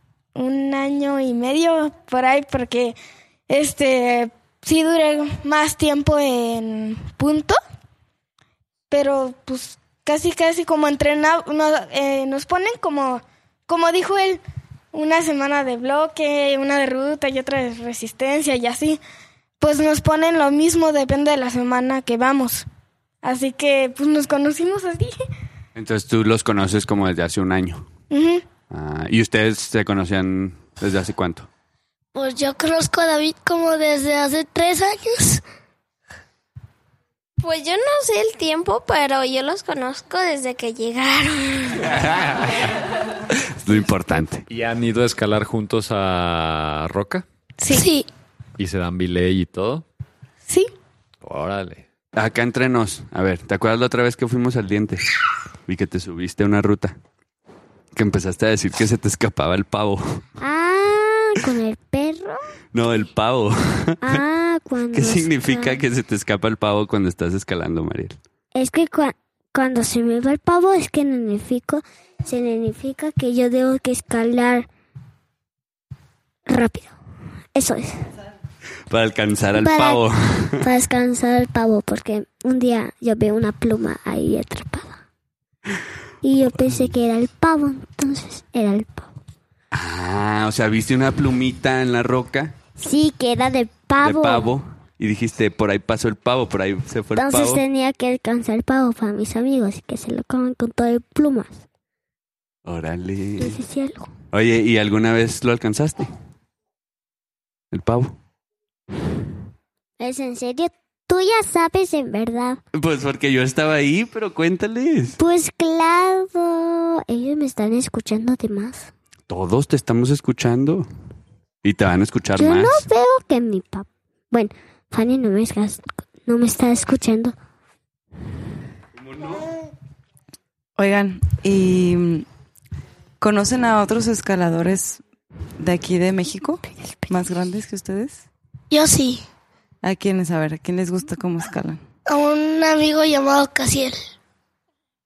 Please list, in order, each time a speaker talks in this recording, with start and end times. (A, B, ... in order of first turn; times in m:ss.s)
0:00.4-0:03.0 A
0:03.5-0:07.6 A
0:08.9-0:14.4 A
0:14.9-0:19.0 A
0:19.6-0:22.7 A
0:23.2-0:25.2 A
0:25.8-0:27.9 B
0:28.1-0:28.4 A
0:28.7-0:31.5 B
0:32.1-0:35.4 C
0:37.4-0:41.9 D
0:41.9-0:42.7 B
0:43.6-0:44.4 B
0:44.5-0:47.2 E
0:47.6-0:47.9 A
0:47.7-0:48.1 C
0:48.6-0:49.8 E
0:51.2-0:51.8 E
0:52.1-0:55.0 B
0:55.7-0:57.0 B
0:58.0-1:00.2 B
1:00.4-1:02.4 F
1:02.7-1:04.2 B
1:04.0-1:05.8 F
1:04.9-1:08.2 B
1:08.5-1:14.7 F
1:16.5-1:17.0 F
1:17.5-1:18.0 F
1:18.9-1:20.6 B
1:19.6-1:20.0 F
1:20.6-1:25.0 F
1:26.2-1:29.1 F
1:29.7-1:32.5 B
1:32.8-1:34.5 F
1:34.0-1:37.6 B
1:37.2-1:41.6 F
1:42.6-1:43.6 B
1:43.4-1:44.1 F
1:44.3-1:46.1 B
1:47.7-1:48.2 B
1:50.0-1:52.6 F
1:52.7-1:55.2 B
1:55.2-1:58.9 F
1:59.3-2:00.9 B
2:01.6-2:02.9 B
2:02.4-2:07.4 F
2:09.0-2:09.4 B
2:10.8-2:12.3 G
2:13.2-2:15.0 G
2:15.6-2:18.3 G
2:18.7-2:19.2 C
2:19.8-2:21.8 G
2:22.1-2:24.0 C